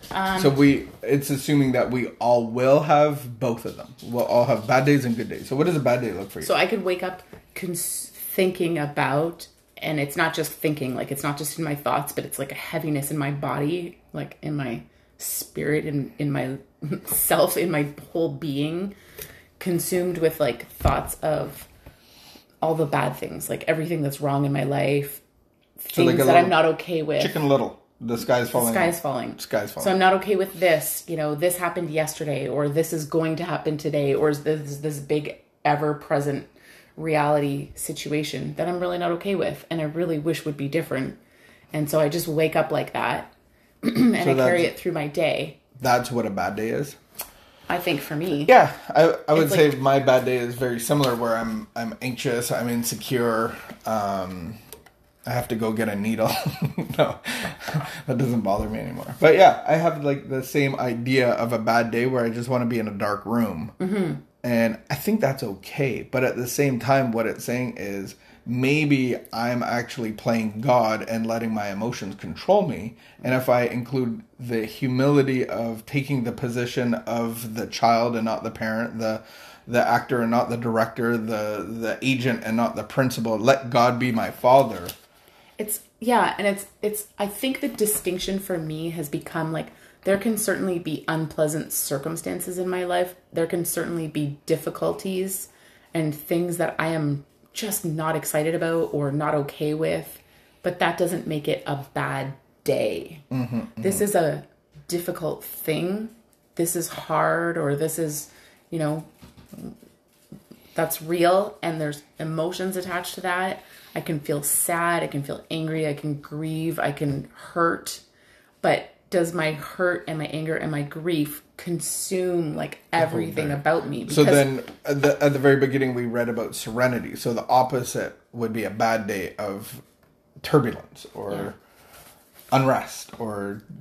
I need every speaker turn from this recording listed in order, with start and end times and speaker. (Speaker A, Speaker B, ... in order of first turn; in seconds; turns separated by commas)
Speaker A: 0.1-0.6, Speaker B: 0.4-6.5, Speaker A: 6.4-19.0, Speaker A: 19.6-21.7, Speaker A: 22.6-25.2, Speaker A: 25.8-27.4, Speaker B: 25.9-29.9, Speaker A: 28.4-41.2, Speaker A: 41.7-45.6, Speaker B: 44.2-44.7, Speaker B: 45.8-47.0, Speaker A: 47.7-48.5, Speaker B: 48.5-54.6, Speaker A: 49.4-49.7, Speaker B: 55.3-63.8, Speaker A: 63.8-64.2, Speaker B: 64.4-84.9, Speaker A: 85.6-103.2, Speaker B: 103.3-104.1, Speaker A: 103.8-109.7, Speaker A: 110.8-118.0, Speaker A: 118.6-124.5, Speaker B: 123.0-129.8, Speaker B: 130.4-131.6, Speaker B: 132.5-133.6